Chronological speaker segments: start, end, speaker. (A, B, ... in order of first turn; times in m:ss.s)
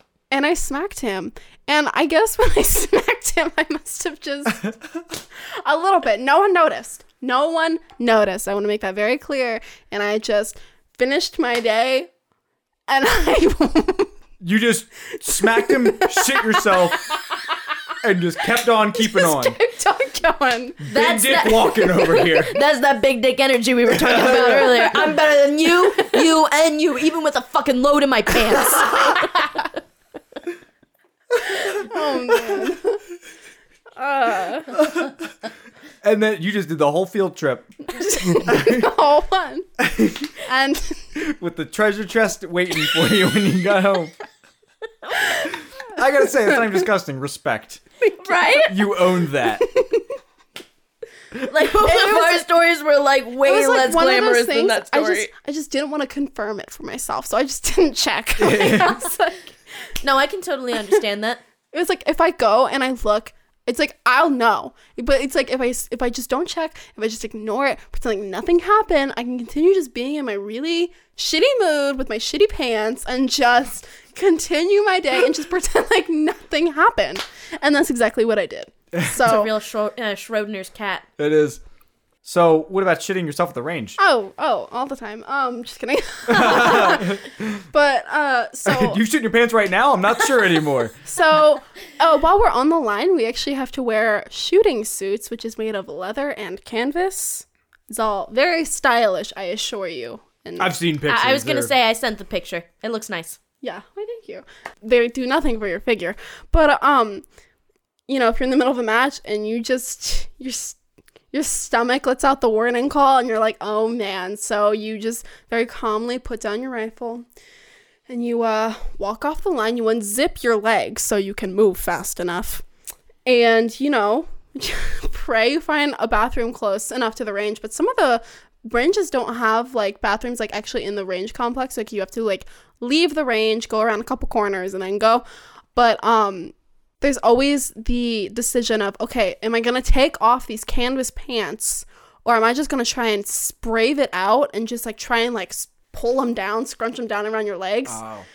0:00.3-0:12.1 A
0:12.9-0:14.1 A
0:14.4-0:17.1 B
0:15.4-0:16.8 A
0:18.0-0:19.6 B
0:18.9-0:20.8 A
0:20.8-0:22.6 B
0:20.9-0:29.6 C
0:23.9-0:24.6 B
0:31.6-0:33.0 A
0:34.0-0:34.8 A
0:34.8-0:35.1 B
0:36.0-0:38.9 B
0:37.9-0:39.7 A
0:39.8-0:40.3 B
0:40.4-0:41.1 A
0:41.1-0:44.1 B
0:45.5-0:47.8 B
0:48.2-0:48.9 C
0:48.6-0:49.7 B
0:49.6-0:50.0 A
0:51.5-0:55.3 C
0:51.8-0:52.4 A
0:53.4-0:59.5 A
0:58.4-0:59.0 B
1:00.0-1:01.4 C
1:01.7-1:19.5 A
1:19.2-1:21.0 C
1:21.2-1:21.6 B
1:22.2-1:24.0 B
1:24.0-1:29.0 A
1:26.3-1:27.6 B
1:28.6-1:31.1 B
1:31.0-1:40.7 A
1:40.6-1:41.7 B
1:41.1-1:43.4 C
1:43.6-1:47.2 A
1:48.1-1:50.8 A
1:51.3-1:57.2 A
1:58.1-2:02.6 A
2:03.2-2:28.0 A
2:27.8-2:28.2 B